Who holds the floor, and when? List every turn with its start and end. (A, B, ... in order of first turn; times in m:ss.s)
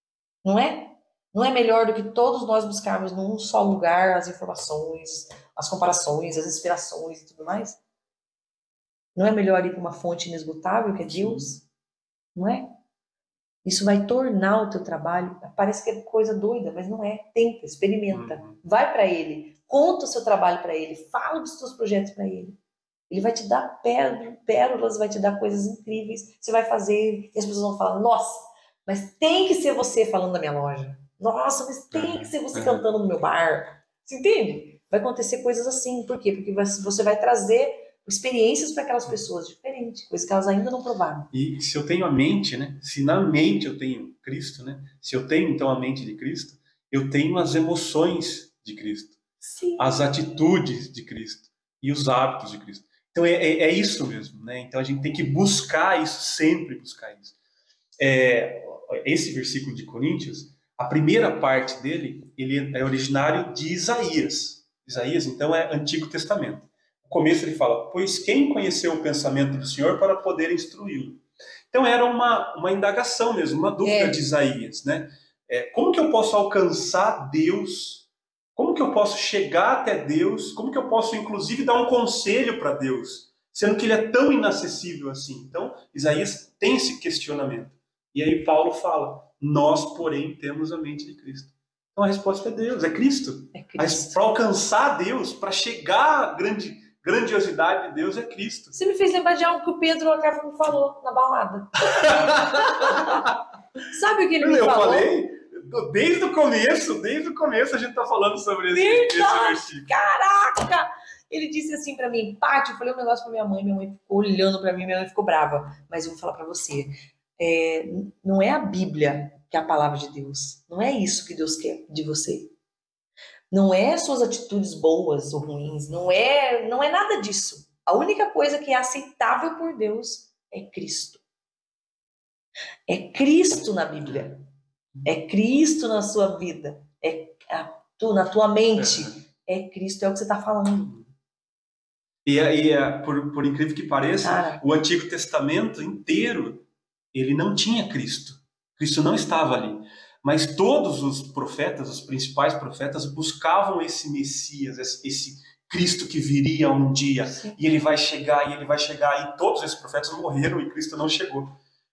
0:00.4-0:07.8 A
0:09.2-0:11.7 A
0:11.1-0:11.5 B
0:12.4-0:12.7 A
0:13.6-0:22.6 A
0:18.1-0:18.6 B
0:23.1-0:41.3 A
0:31.9-0:32.8 B
0:41.3-0:49.2 B
0:49.4-0:50.0 A
0:49.8-0:57.3 B
0:58.0-1:38.8 B
1:13.8-1:14.2 A
1:33.5-1:34.2 A
1:38.7-1:43.2 A
1:41.9-1:43.4 B
1:43.9-1:45.1 A
1:44.4-1:50.1 B
1:48.7-2:02.5 A
2:03.5-2:11.2 A
2:12.9-2:14.4 A
2:14.1-2:14.3 B
2:15.0-2:20.9 A
2:18.8-2:19.2 B
2:22.2-2:41.6 B
2:24.2-2:24.6 A
2:37.2-2:37.6 A